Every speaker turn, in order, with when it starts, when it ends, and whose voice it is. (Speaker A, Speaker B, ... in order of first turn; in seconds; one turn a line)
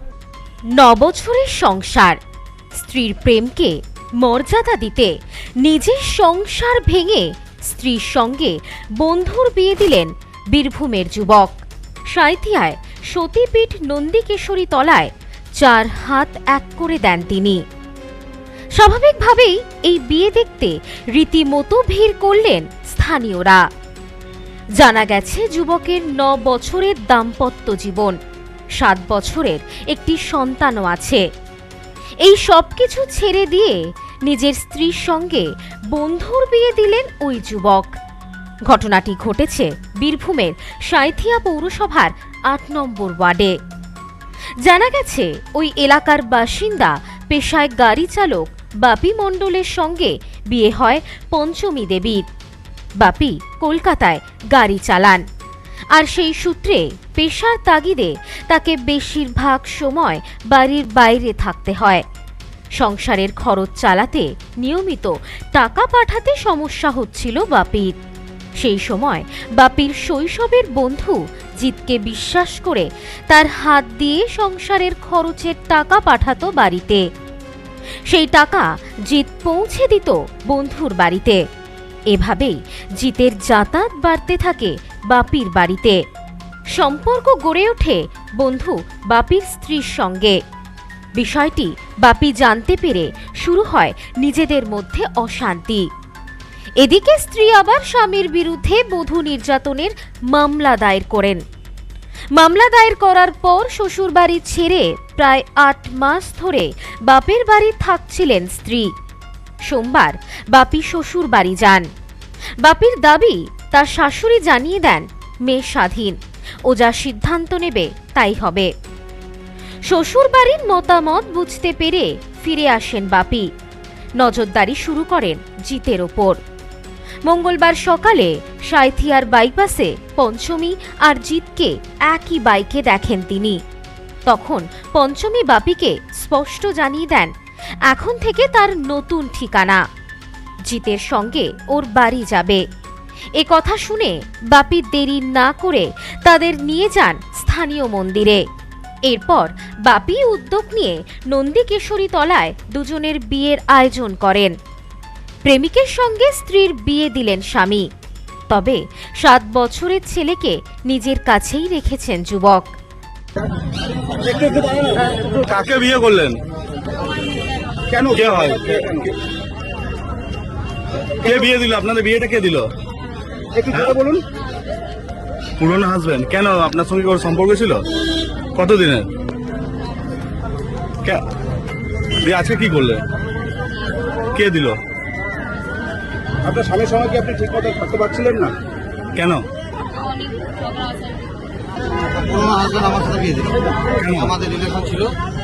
Speaker A: 0.7-2.2
Speaker A: 2.8-11.5
Speaker A: 12.1-17.6
Speaker A: 18.8-23.6
Speaker A: 24.8-28.1
Speaker A: 28.8-31.2
Speaker A: 32.2-37.9
Speaker A: 38.7-43.5
Speaker A: 44.6-52.2
Speaker A: 53.0-55.2
Speaker A: 55.9-62.0
Speaker A: 62.8-67.9
Speaker A: 68.6-77.0
Speaker A: 78.1-81.4
Speaker A: 82.1-86.0
Speaker A: 86.7-90.4
Speaker A: 91.2-95.8
Speaker A: 96.8-101.4
Speaker A: 102.3-108.9
Speaker A: 109.7-111.8
Speaker A: 112.6-116.2
Speaker A: 116.7-118.7
Speaker A: 119.8-123.5
Speaker A: 124.2-126.4
Speaker A: 127.2-133.6
Speaker A: 134.3-137.3
Speaker A: 137.9-139.8
Speaker A: 140.7-142.6
Speaker A: 143.4-148.4
Speaker A: 149.1-154.5
Speaker A: 155.4-157.9
Speaker A: 158.5-162.7
Speaker B: 164.2-166.4
Speaker C: 167.9-169.0
Speaker B: 167.9-169.1
Speaker B: 171.2-172.7
Speaker C: 173.5-174.2
Speaker B: 173.7-174.0
Speaker B: 175.6-177.8
Speaker B: 178.6-179.1
Speaker B: 182.2-183.0
Speaker B: 184.3-184.8
Speaker C: 186.4-188.5
Speaker B: 189.2-189.4
Speaker D: 192.1-193.6
Speaker B: 194.0-194.4
Speaker D: 194.2-195.1